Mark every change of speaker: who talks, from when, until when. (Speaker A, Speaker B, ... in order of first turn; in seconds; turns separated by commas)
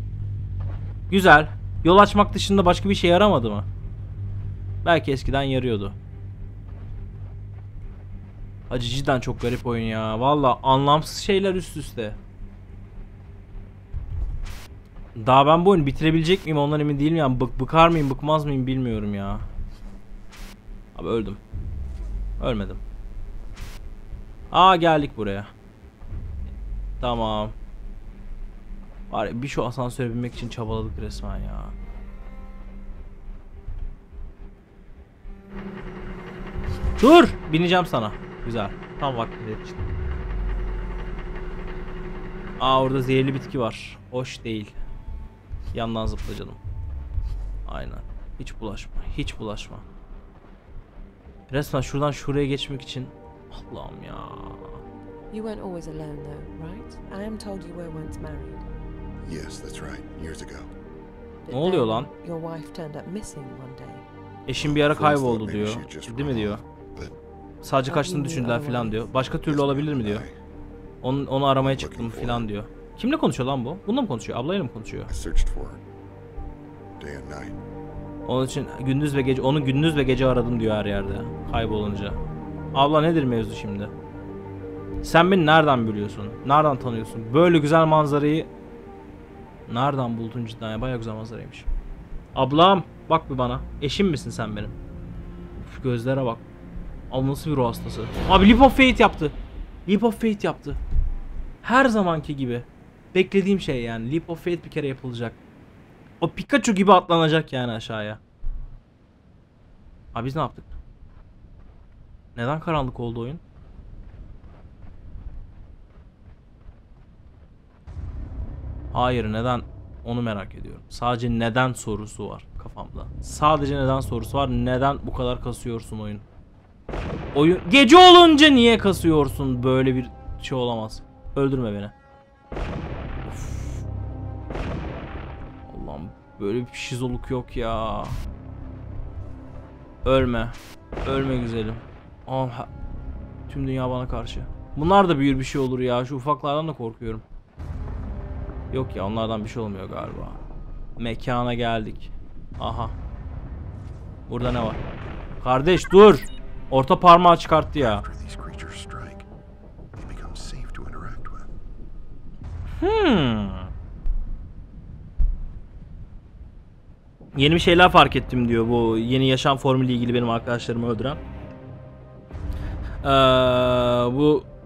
Speaker A: 1.1-3.7, Speaker A: 4.8-6.0, Speaker A: 8.7-12.2, Speaker A: 15.2-19.5, Speaker A: 20.9-21.4, Speaker A: 22.4-22.8, Speaker A: 24.5-25.5, Speaker A: 27.0-27.6, Speaker A: 29.1-31.8, Speaker A: 37.0-39.8, Speaker A: 42.6-44.8, Speaker A: 45.7-46.6, Speaker A: 47.7-49.9, Speaker A: 51.5-54.8, Speaker B: 55.3-58.6, Speaker C: 59.2-60.7, Speaker B: 61.5-64.1, Speaker A: 61.5-62.1, Speaker A: 64.5-66.6, Speaker C: 64.6-67.2, Speaker A: 67.6-70.2, Speaker B: 67.9-69.1, Speaker C: 69.5-70.3, Speaker A: 71.0-75.1, Speaker C: 71.6-72.5, Speaker C: 75.1-75.8, Speaker C: 77.0-77.6, Speaker A: 78.3-82.2, Speaker A: 82.7-83.9, Speaker A: 85.0-88.5, Speaker A: 89.7-91.7, Speaker A: 92.3-94.8, Speaker A: 95.6-96.5, Speaker A: 97.1-100.8, Speaker A: 101.6-105.4, Speaker A: 106.2-108.2, Speaker A: 110.1-110.8, Speaker A: 112.3-113.4, Speaker A: 118.9-126.2, Speaker A: 127.3-131.9, Speaker A: 133.3-133.8, Speaker A: 135.7-138.2, Speaker A: 140.1-142.7, Speaker A: 143.5-147.2, Speaker A: 148.7-150.4, Speaker A: 151.0-152.9, Speaker A: 154.3-154.8, Speaker A: 155.4-158.1, Speaker C: 157.8-159.3, Speaker C: 160.0-161.5, Speaker A: 162.8-163.7, Speaker A: 167.3-171.2, Speaker A: 173.0-174.5